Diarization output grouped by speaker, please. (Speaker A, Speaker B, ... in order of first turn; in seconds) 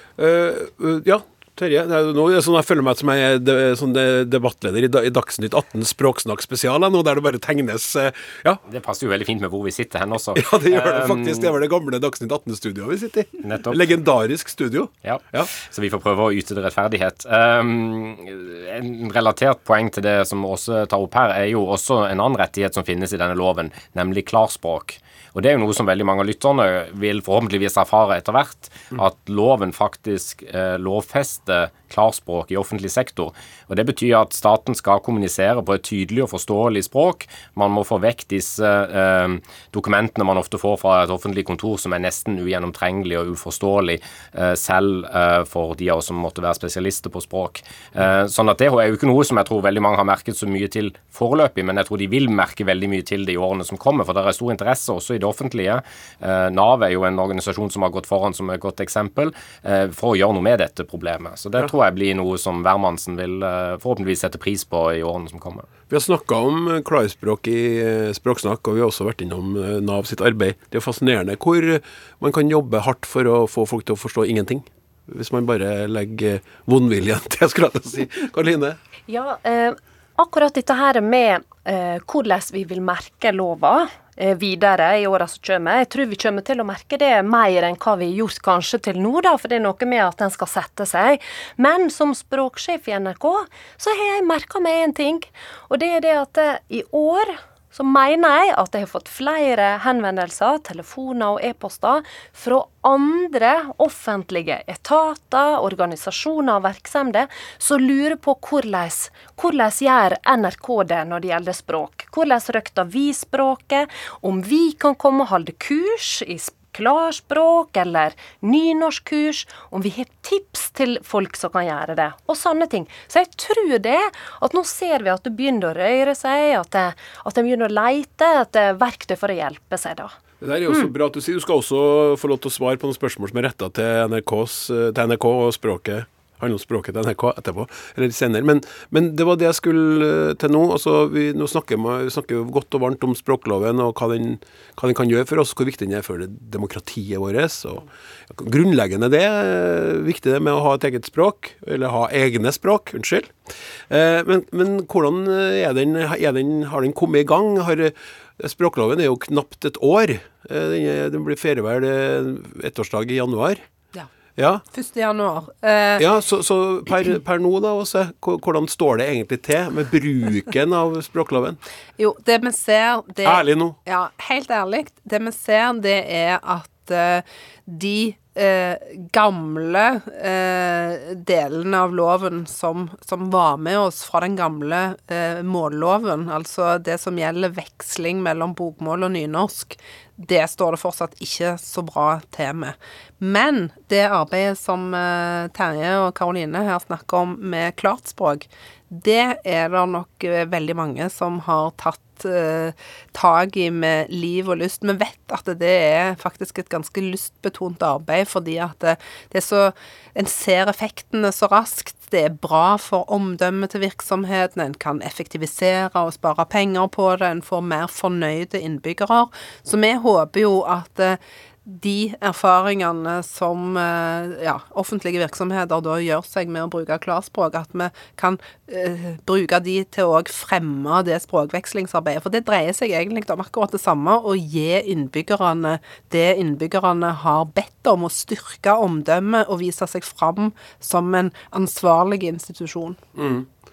Speaker A: 0.2-8.6, 10.3-15.5, 65.9-78.8, 130.4-153.3, 153.9-163.6, 164.4-164.6, 166.0-171.6, 173.2-173.8, 243.2-243.5
Speaker B: 8.7-11.5, 13.4-13.9, 15.0-65.7
Speaker C: 79.1-130.1
Speaker D: 164.7-166.0, 172.0-243.0